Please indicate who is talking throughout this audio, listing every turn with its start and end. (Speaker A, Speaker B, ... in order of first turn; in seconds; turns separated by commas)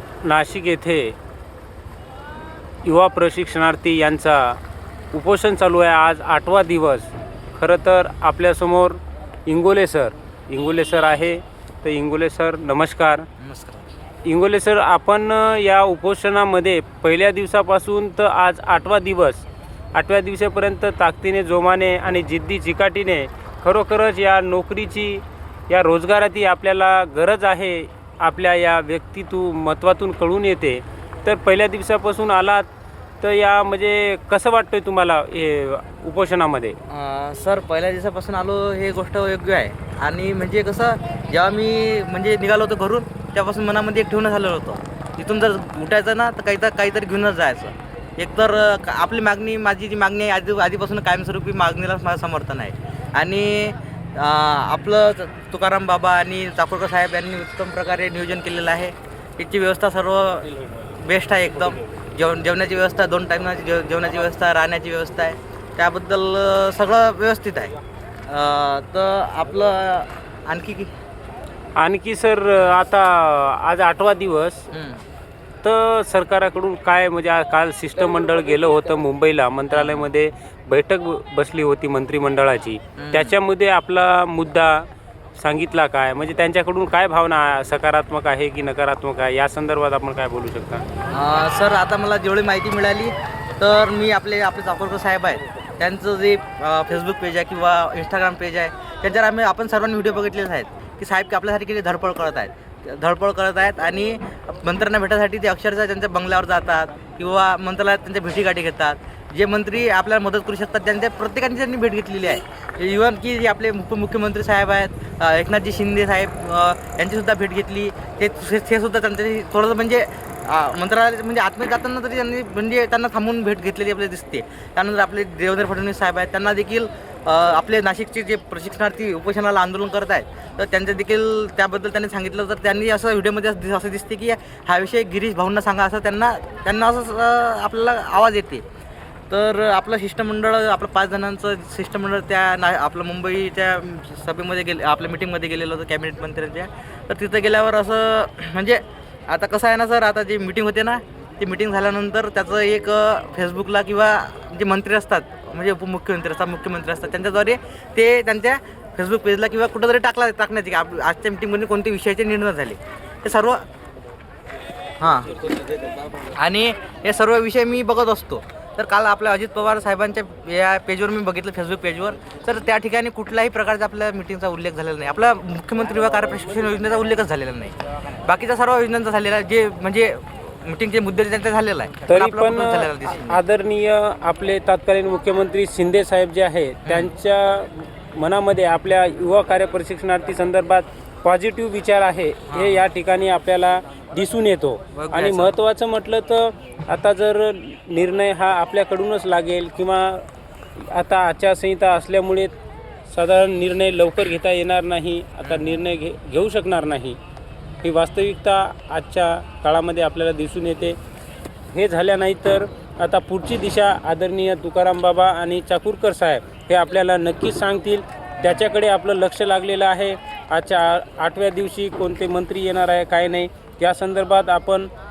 Speaker A: 0.2-1.1, Speaker A: 2.8-4.6, Speaker A: 5.1-13.3, Speaker B: 13.4-13.8, Speaker A: 14.2-32.7, Speaker A: 33.2-36.8, Speaker B: 36.9-67.7, Speaker B: 68.2-70.9, Speaker A: 71.8-74.7, Speaker B: 74.7-75.0, Speaker A: 75.6-90.8, Speaker B: 79.7-80.1, Speaker B: 83.0-83.3, Speaker B: 91.1-138.6, Speaker B: 139.3-163.6, Speaker B: 165.0-165.4, Speaker B: 166.3-183.4, Speaker A: 182.1-200.2, Speaker B: 186.8-187.1, Speaker B: 192.5-192.8, Speaker B: 194.9-195.5, Speaker A: 200.8-202.5, Speaker A: 203.1-207.2, Speaker B: 205.4-205.8, Speaker A: 207.8-211.0, Speaker A: 211.7-224.9